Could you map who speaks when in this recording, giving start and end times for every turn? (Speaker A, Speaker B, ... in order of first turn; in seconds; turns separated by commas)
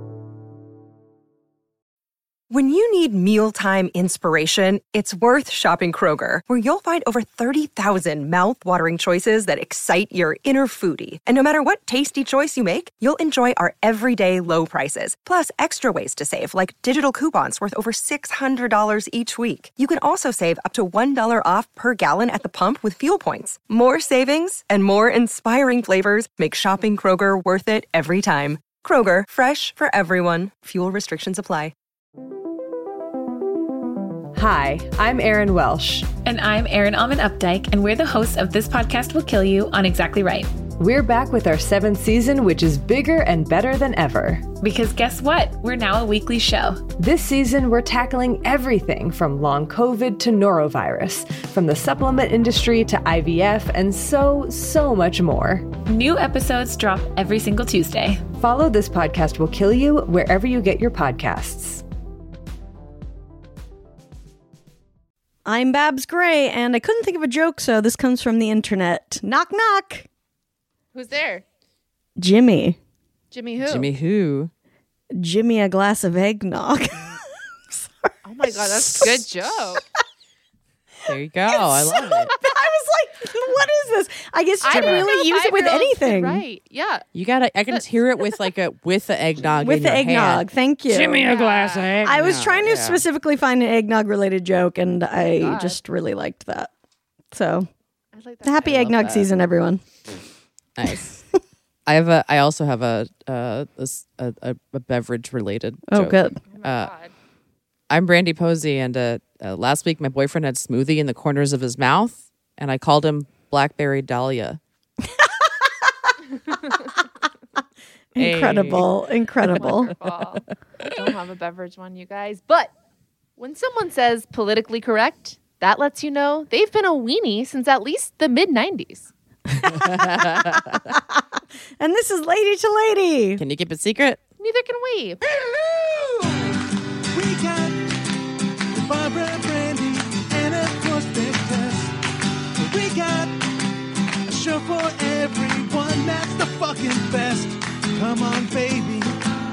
Speaker A: 2.5-31.7, Speaker B: 34.3-36.1, Speaker C: 36.2-40.5, Speaker B: 40.8-44.5, Speaker C: 44.6-46.9, Speaker B: 46.9-55.7, Speaker C: 55.9-58.2, Speaker B: 58.3-61.8, Speaker D: 65.4-70.1, Speaker E: 70.9-71.4, Speaker D: 72.2-72.8, Speaker E: 73.3-73.9, Speaker F: 73.6-74.5, Speaker D: 75.1-77.2, Speaker E: 78.2-79.8, Speaker D: 78.5-79.3, Speaker F: 81.0-82.3, Speaker D: 81.5-86.4, Speaker E: 84.6-87.0, Speaker F: 87.1-93.0, Speaker D: 89.6-91.2, Speaker E: 91.2-92.0, Speaker D: 92.0-96.7, Speaker E: 95.2-95.8, Speaker D: 97.3-97.7, Speaker E: 98.1-99.1, Speaker D: 98.4-99.8, Speaker F: 98.7-99.2, Speaker F: 100.8-101.2, Speaker F: 101.9-106.9, Speaker D: 105.9-106.4, Speaker E: 106.5-107.1, Speaker F: 107.9-114.6, Speaker D: 115.0-115.7, Speaker E: 116.5-116.9, Speaker D: 118.1-119.9, Speaker F: 118.2-118.9, Speaker E: 119.6-122.7, Speaker E: 123.4-129.1, Speaker F: 129.6-130.9, Speaker D: 129.6-131.2, Speaker D: 131.8-133.4, Speaker F: 133.4-134.2, Speaker E: 134.4-135.2, Speaker G: 135.2-137.9, Speaker G: 138.7-141.9, Speaker G: 142.6-143.4, Speaker G: 144.3-149.1